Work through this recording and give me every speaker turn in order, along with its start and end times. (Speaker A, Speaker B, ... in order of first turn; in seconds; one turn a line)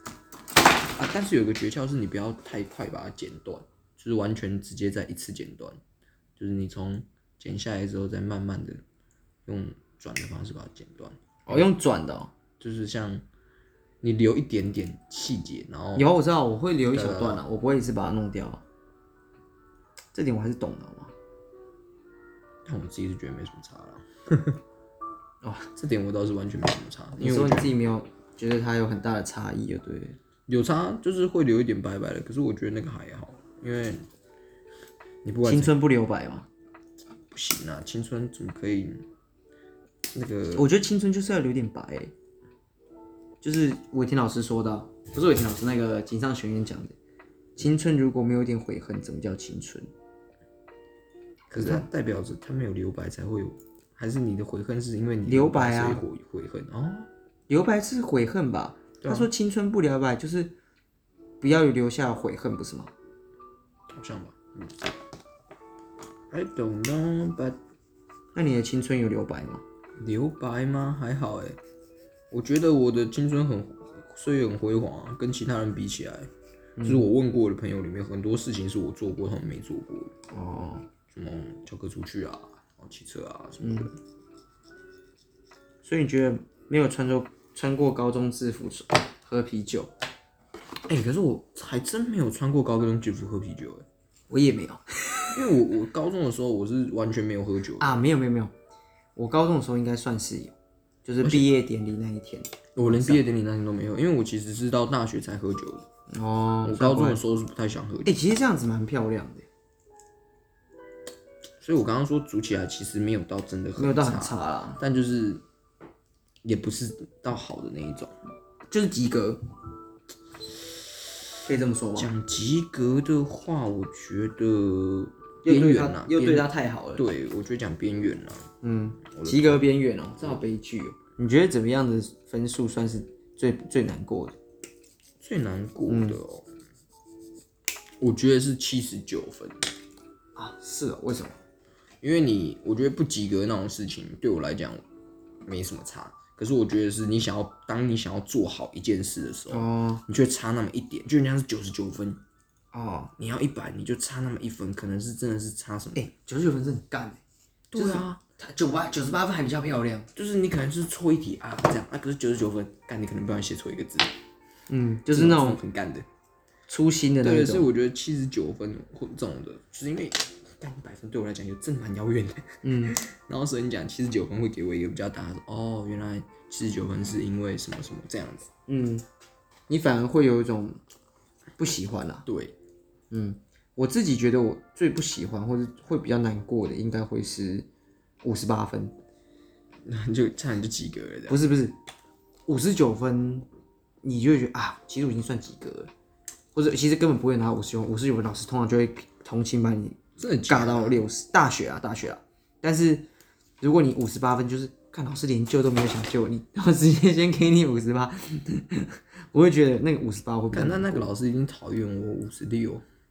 Speaker A: 0.9-5.8
Speaker A: 6.4-8.8
Speaker A: 9.4-11.7
Speaker B: 11.4-12.3
Speaker A: 12.6-13.2
Speaker A: 14.0-16.1
Speaker B: 15.9-18.6
Speaker A: 16.9-17.4
Speaker B: 20.1-21.1
Speaker A: 22.6-24.6
Speaker B: 25.4-25.7
Speaker A: 25.8-27.7
Speaker B: 27.2-30.2
Speaker A: 30.5-34.1
Speaker A: 35.2-35.7
Speaker B: 35.4-36.5
Speaker A: 37.3-39.0
Speaker A: 40.1-40.7
Speaker B: 40.5-42.1
Speaker B: 43.4-47.0
Speaker B: 47.6-49.9
Speaker A: 51.5-57.1
Speaker B: 51.6-51.8
Speaker B: 55.2-56.0
Speaker B: 57.5-60.5
Speaker A: 59.0-59.3
Speaker B: 61.4-62.9
Speaker A: 63.9-64.7
Speaker A: 66.3-67.6
Speaker B: 68.3-69.6
Speaker A: 70.0-71.6
Speaker A: 72.3-76.3
Speaker B: 76.8-77.1
Speaker A: 76.8-80.1
Speaker B: 80.3-80.9
Speaker A: 81.1-84.0
Speaker B: 83.6-83.9
Speaker B: 85.8-89.9
Speaker A: 90.9-93.8
Speaker B: 94.3-95.3
Speaker A: 95.3-98.0
Speaker B: 97.8-98.5
Speaker B: 99.2-100.5
Speaker B: 101.0-103.2
Speaker A: 101.2-101.5
Speaker A: 102.8-105.8
Speaker B: 106.1-107.2
Speaker A: 106.6-108.1
Speaker B: 108.0-109.5
Speaker A: 111.6-115.4
Speaker B: 113.8-114.8
Speaker A: 116.4-118.1
Speaker B: 118.7-119.4
Speaker B: 121.4-122.1
Speaker A: 121.9-128.5
Speaker B: 125.4-127.0
Speaker B: 128.6-134.4
Speaker A: 129.1-129.6
Speaker A: 135.2-136.5
Speaker B: 135.9-136.2
Speaker A: 138.0-139.7
Speaker B: 140.3-141.3
Speaker A: 142.0-144.8
Speaker A: 145.4-152.2
Speaker B: 149.5-150.0
Speaker B: 152.7-153.1
Speaker A: 153.2-156.1
Speaker B: 155.9-157.2
Speaker A: 157.7-158.2
Speaker B: 157.7-160.1
Speaker A: 160.1-164.1
Speaker B: 164.7-165.6
Speaker A: 165.1-166.1
Speaker B: 166.7-167.7
Speaker A: 167.2-178.5
Speaker B: 172.6-173.0
Speaker B: 178.7-179.0
Speaker B: 179.7-180.8
Speaker B: 181.6-182.2
Speaker A: 182.2-182.6
Speaker B: 183.1-187.7
Speaker B: 188.2-188.9
Speaker A: 189.8-191.4
Speaker B: 191.3-191.8
Speaker B: 192.5-193.4
Speaker B: 194.0-195.9
Speaker B: 196.5-203.1
Speaker A: 200.2-201.0
Speaker B: 203.6-211.1
Speaker A: 210.5-212.8